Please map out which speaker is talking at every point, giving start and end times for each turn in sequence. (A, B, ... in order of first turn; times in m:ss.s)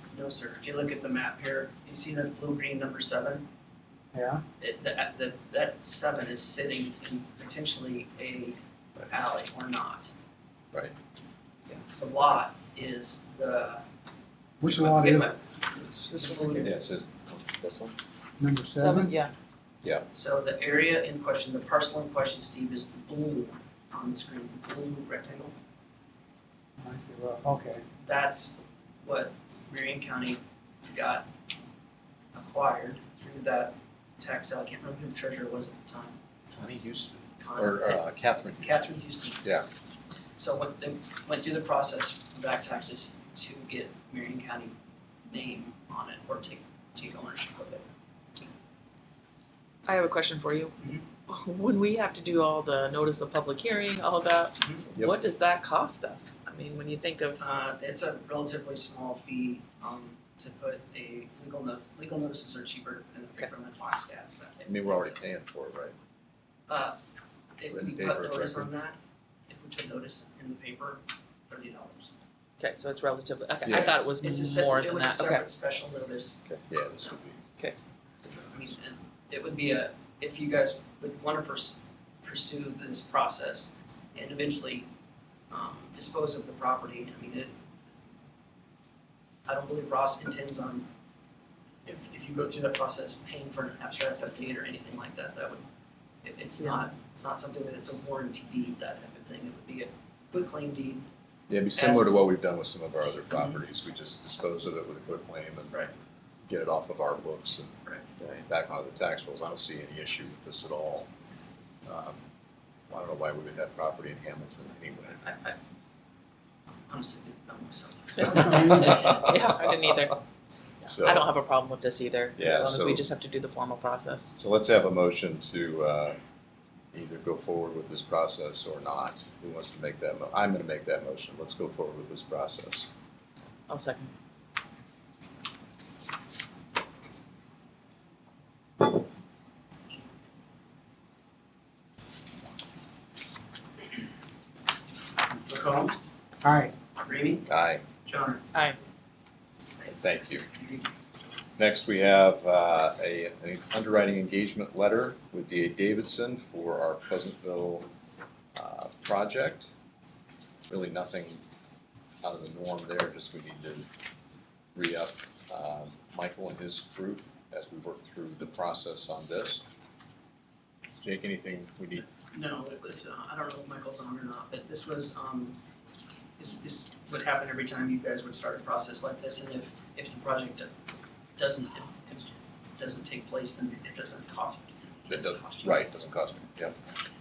0:00.1-0:03.5 A
0:04.1-0:04.4 B
0:04.6-0:10.1 A
0:11.7-0:13.8 A
0:14.6-0:15.3 B
0:14.7-0:15.6 A
0:15.9-0:16.7 C
0:16.1-0:16.7 A
0:16.6-0:17.7 D
0:17.6-0:17.9 C
0:18.4-0:19.1 B
0:18.8-0:19.3 C
0:20.1-0:25.6 A
0:26.8-0:27.8 B
0:28.0-0:31.3 A
0:32.4-0:36.2 A
0:36.5-0:38.9 D
0:37.4-0:38.0 A
0:38.6-0:39.4 A
0:40.4-0:44.7 A
0:45.3-0:47.9 A
0:49.9-0:50.7 C
0:51.3-0:57.4 C
0:57.4-1:05.2 A
1:04.7-1:06.0 D
1:06.7-1:07.0 A
1:07.6-1:09.0 A
1:07.7-1:08.7 D
1:09.5-1:12.1 A
1:12.6-1:15.4 C
1:13.7-1:14.0 D
1:14.2-1:16.4 A
1:16.5-1:17.4 D
1:18.3-1:24.9 A
1:25.5-1:27.5 A
1:29.5-1:30.9 A
1:31.9-1:35.6 A
1:36.2-1:41.0 A
1:41.5-1:45.8 D
1:41.7-1:42.2 A
1:46.5-1:51.1 D
1:51.9-1:52.2 D
1:52.9-1:55.2 D
1:55.2-1:55.6 A
1:56.9-1:59.3 A
1:58.8-2:00.2 C
2:00.8-2:01.3 D
2:00.9-2:04.3 C
2:02.4-2:03.0 D
2:04.4-2:06.2 D
2:06.9-2:12.9 D
2:13.7-2:14.1 C
2:25.5-2:26.0 A
2:26.4-2:26.7 B
2:27.0-2:27.5 A
2:27.5-2:27.8 D
2:28.0-2:28.4 A
2:28.5-2:28.8 C
2:29.9-2:30.4 D
2:30.6-2:30.9 A
2:31.6-2:37.9 D
2:38.6-2:39.7 D
2:40.7-2:41.4 D
2:42.2-2:43.9 D
2:44.8-2:49.6 D
2:51.0-2:52.1 D
2:52.3-2:55.6 A
2:56.4-3:00.7 A
3:01.4-3:05.8 A
3:05.1-3:06.8 D